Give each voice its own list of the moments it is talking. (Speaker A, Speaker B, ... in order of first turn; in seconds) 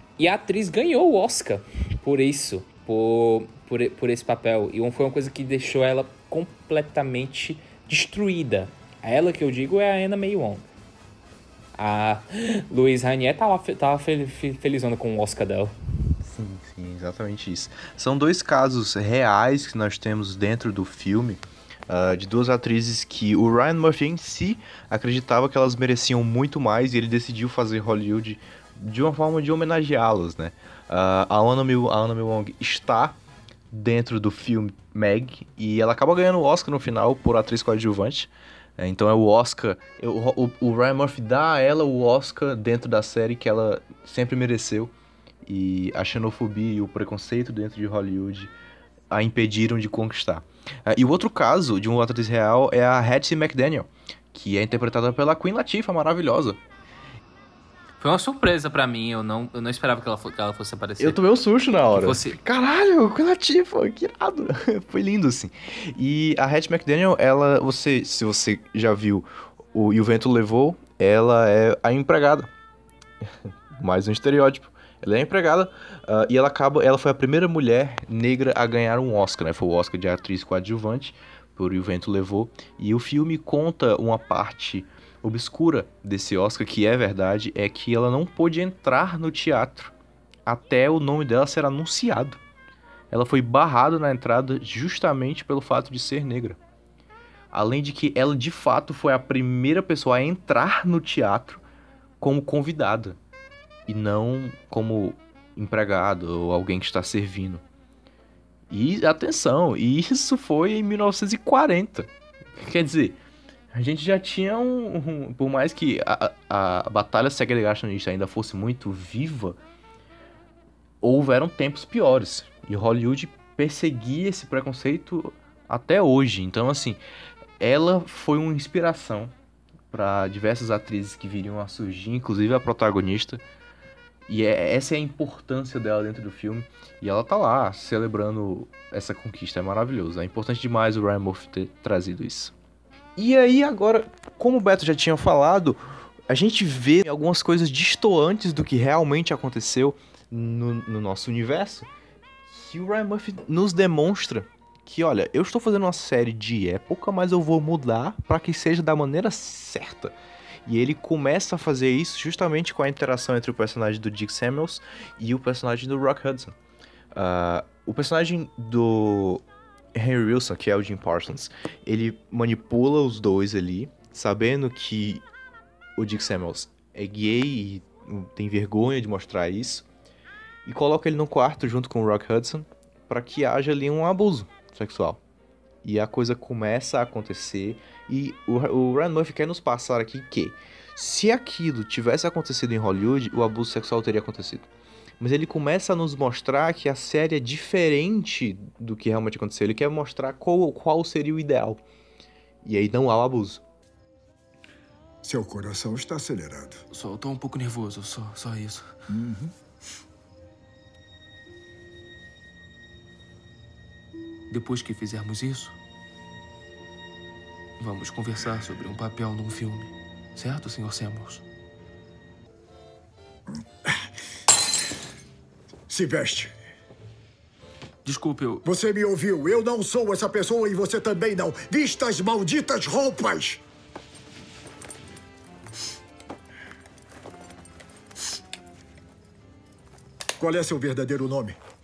Speaker A: 0.2-10.7, 11.8-15.7, 58.0-61.2, 61.9-62.4
Speaker B: 16.2-33.2, 33.7-44.9, 45.4-48.5, 49.1-56.6, 61.0-72.5, 73.2-89.9, 90.5-92.4, 93.1-96.6, 97.5-101.6, 102.2-103.2, 103.9-107.6, 108.7-113.2, 113.7-119.6, 121.0-127.0, 127.6-129.3, 129.9-133.4, 134.3-142.5, 143.2-151.9, 152.5-166.6, 167.1-175.2, 176.0-179.9, 180.7-185.2, 185.8-194.7, 195.2-201.8, 202.6-203.6
Speaker C: 205.2-206.8, 209.1-209.5, 225.9-226.5, 228.7-233.6, 240.4-241.6
Speaker D: 206.9-208.9, 214.5-215.8, 217.8-221.4, 228.0-228.6